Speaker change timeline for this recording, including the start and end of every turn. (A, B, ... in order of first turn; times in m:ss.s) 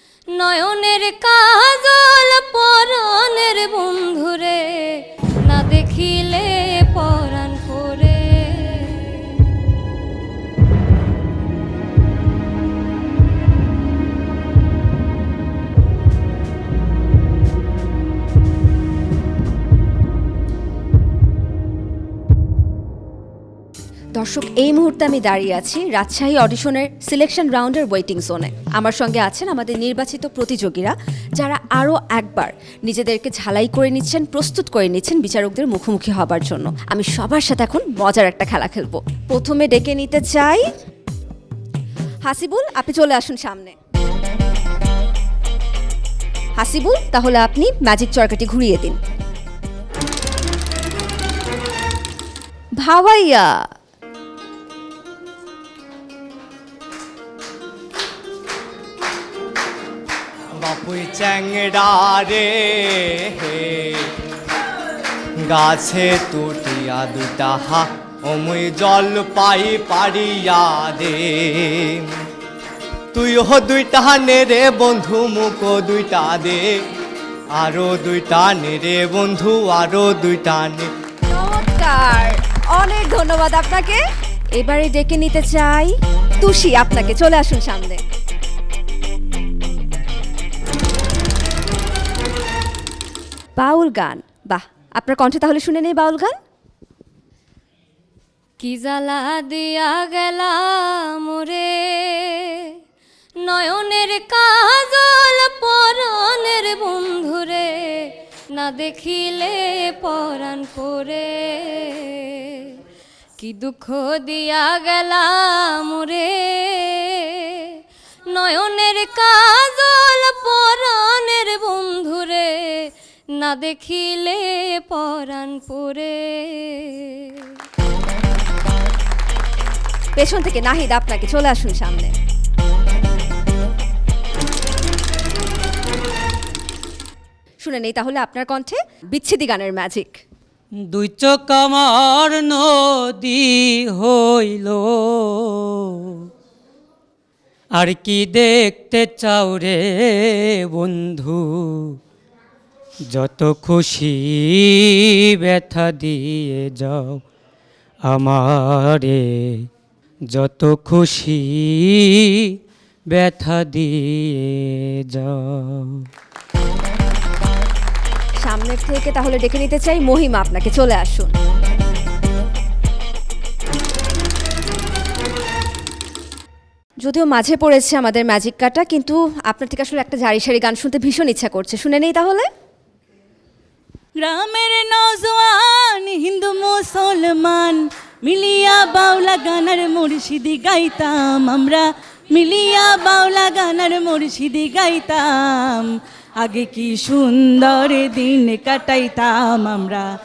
0:00.3-0:09.5 A
0:24.2-0:40.6 B
0:42.3-0:43.7 B
0:46.6-0:49.0 B
0:52.8-0:53.6 B
1:00.6-1:04.1 C
1:05.4-1:12.1 C
1:13.1-1:16.7 C
1:17.6-1:20.9 C
1:21.3-1:24.0 B
1:24.6-1:28.0 B
1:33.6-1:36.3 B
1:38.6-1:42.8 A
1:43.4-1:52.8 A
1:53.4-1:57.8 A
1:58.3-2:07.5 A
2:10.2-2:12.1 B
2:17.6-2:20.2 B
2:20.9-2:26.3 D
2:27.8-2:32.0 D
2:33.1-2:37.2 D
2:38.1-2:39.7 D
2:40.3-2:42.6 D
2:43.1-2:46.1 D
2:48.4-2:51.3 B
2:57.0-3:02.5 B
3:04.2-3:20.0 E